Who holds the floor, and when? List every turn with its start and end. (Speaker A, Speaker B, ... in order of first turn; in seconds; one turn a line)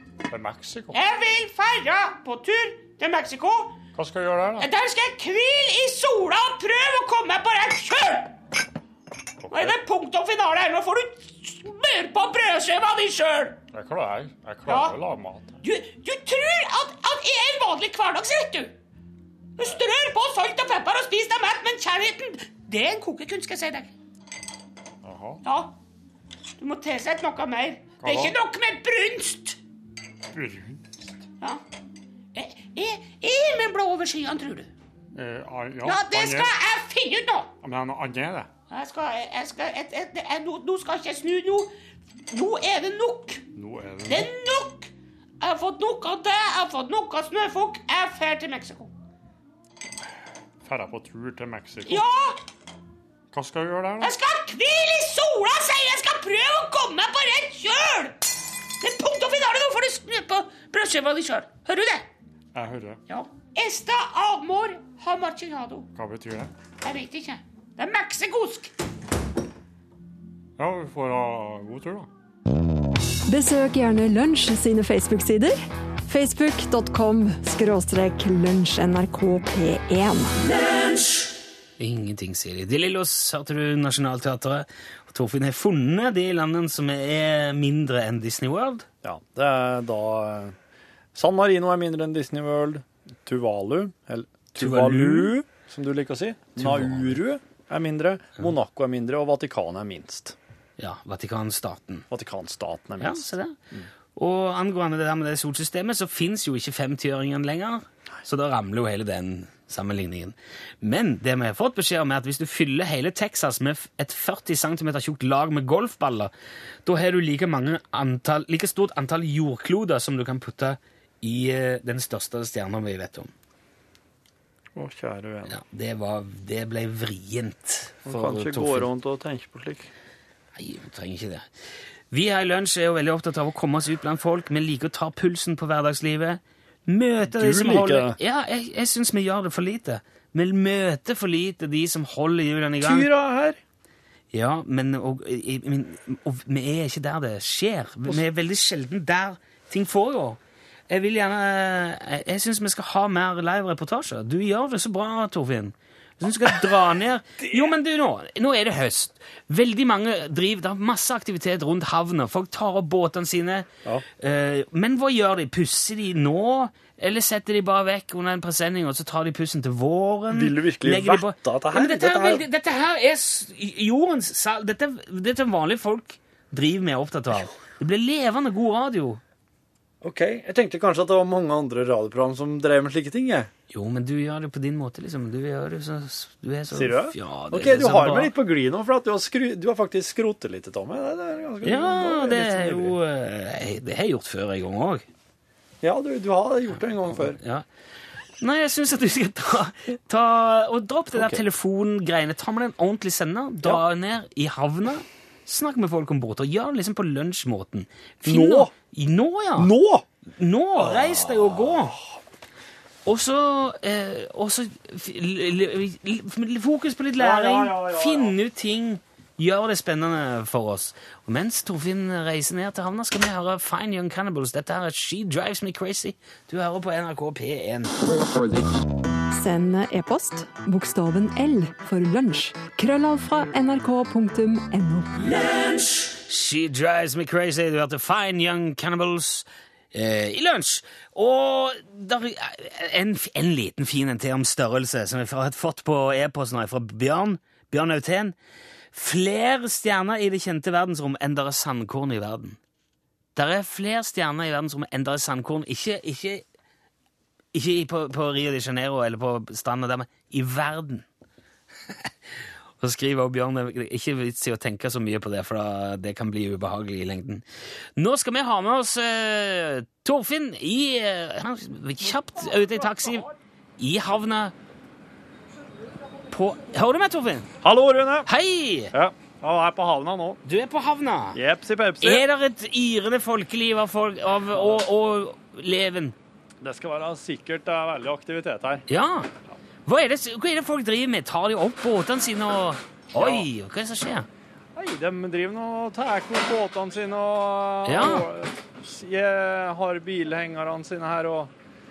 Speaker A: 0.3-1.0
Speaker B: 0.9-3.8
Speaker A: 4.0-4.7
Speaker B: 4.6-8.3
Speaker A: 9.4-9.8
Speaker B: 9.5-13.6
Speaker A: 13.7-15.6
Speaker B: 14.7-15.0
Speaker B: 15.6-18.8
Speaker B: 19.6-23.9
Speaker A: 25.0-25.4
Speaker B: 25.4-25.8
Speaker B: 26.6-29.6
Speaker A: 28.0-28.4
Speaker A: 30.3-30.9
Speaker B: 32.3-34.7
Speaker A: 35.1-36.5
Speaker B: 35.8-37.5
Speaker A: 37.6-38.5
Speaker B: 38.7-41.7
Speaker B: 42.3-43.5
Speaker A: 43.5-44.3
Speaker B: 44.1-48.9
Speaker A: 50.6-52.0
Speaker B: 51.9-52.4
Speaker A: 53.3-54.1
Speaker B: 54.0-58.2
Speaker B: 58.8-62.1
Speaker A: 62.5-63.0
Speaker B: 63.1-65.9
Speaker A: 66.0-66.5
Speaker B: 66.8-68.7
Speaker A: 70.6-72.1
Speaker C: 73.3-80.4
Speaker D: 81.8-88.9
Speaker E: 89.0-90.5
Speaker E: 91.2-100.4
Speaker D: 94.6-95.4
Speaker D: 96.6-97.2
Speaker D: 100.8-102.1
Speaker E: 102.1-103.9
Speaker D: 103.0-103.6
Speaker D: 104.2-116.3
Speaker D: 116.9-123.3
Speaker E: 124.8-125.6
Speaker D: 125.5-128.9
Speaker E: 128.1-129.9
Speaker D: 130.6-131.5
Speaker D: 132.1-143.1
Speaker E: 137.2-138.2
Speaker E: 142.8-143.6
Speaker D: 144.3-179.2
Speaker E: 170.3-172.5
Speaker E: 180.0-183.5
Speaker D: 183.7-188.3
Speaker E: 186.7-193.0
Speaker D: 191.6-195.1
Speaker E: 195.8-197.4
Speaker D: 197.1-197.7
Speaker D: 198.4-209.7
Speaker E: 201.1-201.4
Speaker E: 208.2-208.7
Speaker E: 209.6-210.1
Speaker D: 210.3-212.0
Speaker E: 210.8-212.0
Speaker D: 213.1-227.9
Speaker E: 217.2-218.4
Speaker C: 229.3-235.3
Speaker D: 236.1-248.3
Speaker D: 248.9-252.6
Speaker D: 253.3-256.4
Speaker D: 257.5-261.1
Speaker D: 262.8-267.4
Speaker D: 268.0-273.3
Speaker E: 272.5-273.2
Speaker D: 273.8-274.6
Speaker D: 276.3-277.5
Speaker E: 277.6-278.3
Speaker D: 278.3-278.9
Speaker E: 278.9-280.4
Speaker D: 280.4-281.4
Speaker E: 281.3-282.2
Speaker D: 282.0-286.2
Speaker E: 286.6-288.9
Speaker D: 288.9-289.3
Speaker D: 289.9-294.3
Speaker E: 293.1-293.5
Speaker E: 294.8-301.5
Speaker D: 297.9-298.3